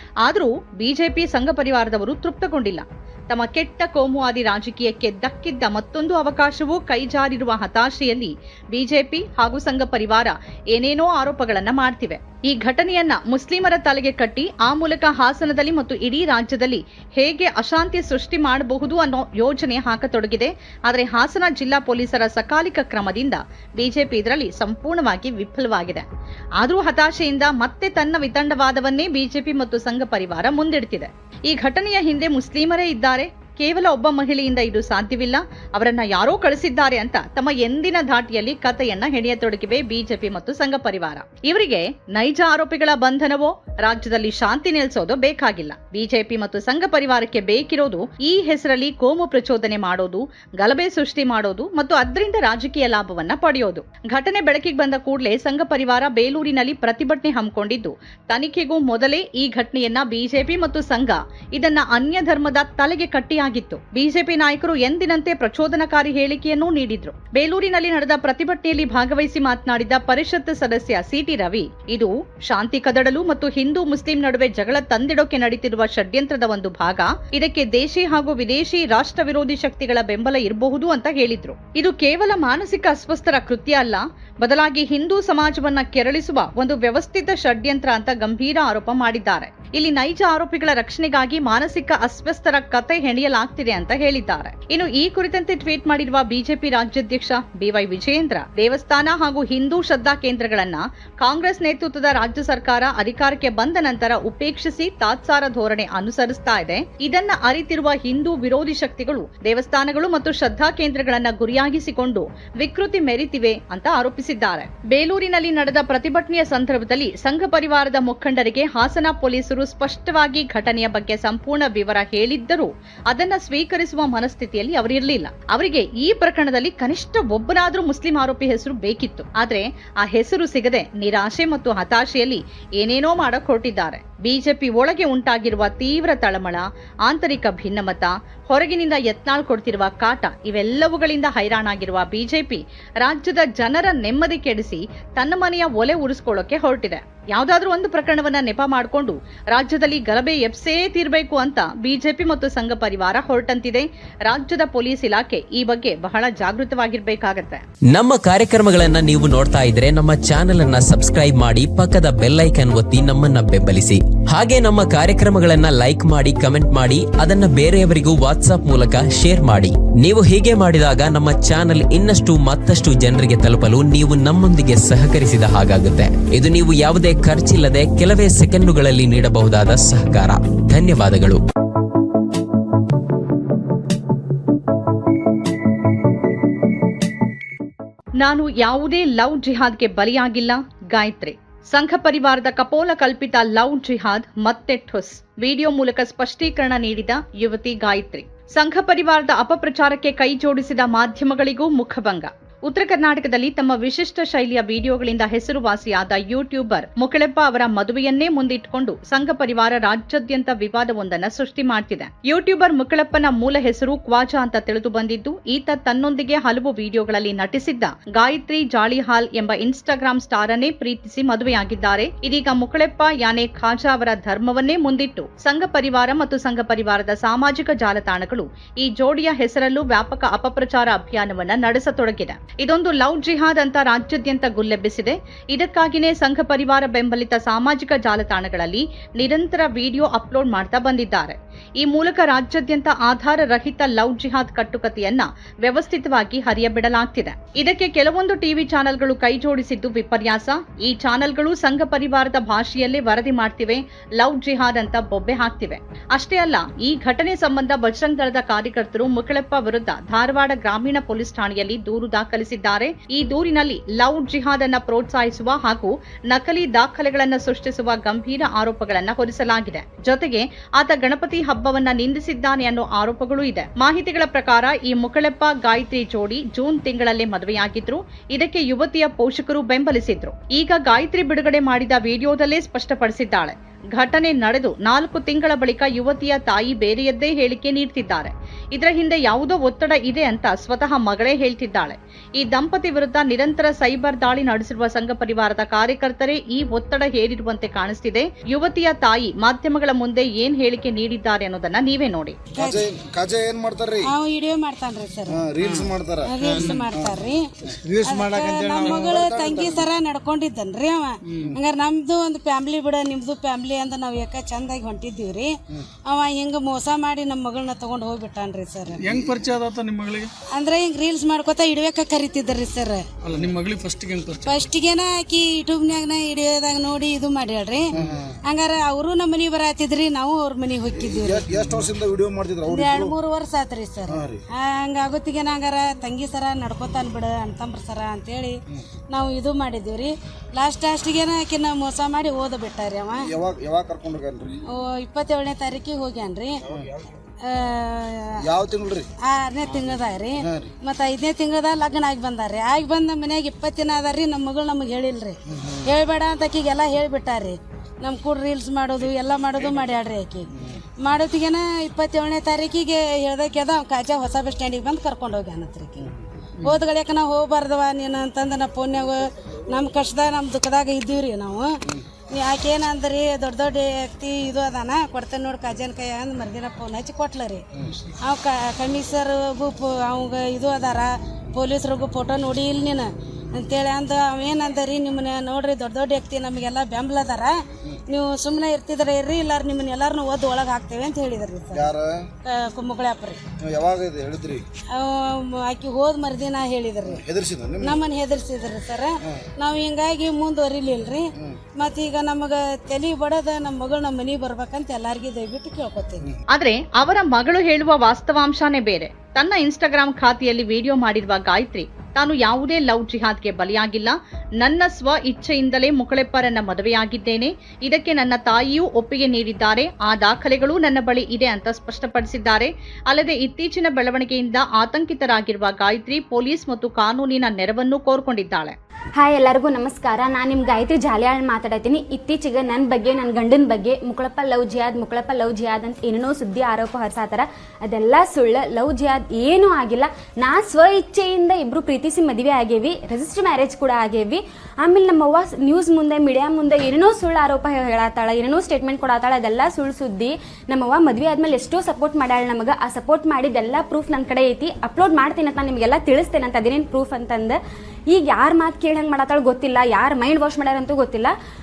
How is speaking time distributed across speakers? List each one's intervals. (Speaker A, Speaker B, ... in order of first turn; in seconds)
Speaker A: 0.2-26.0, 26.6-157.6, 188.2-302.4, 406.5-428.8
Speaker B: 157.9-181.4
Speaker C: 302.5-304.1, 305.3-309.9, 327.9-328.3, 330.9-333.1, 334.1-334.4, 343.2-344.6, 346.6-347.0, 348.4-349.1, 350.4-350.7, 355.5-355.8, 391.7-392.3, 393.6-394.6, 397.0-398.0
Speaker D: 302.6-302.9, 304.0-305.5, 306.2-315.6, 316.1-319.0, 320.5-323.1, 324.4-331.6, 332.6-338.6, 339.1-343.3, 344.7-346.6, 347.4-348.4, 349.2-360.5, 361.0-366.1, 366.6-371.8, 372.3-377.6, 378.2-391.9, 392.4-393.4, 394.9-397.2, 397.8-406.2
Speaker E: 306.5-306.9, 311.3-311.5, 319.0-320.3, 323.2-324.7
Speaker F: 429.2-457.6, 458.1-461.3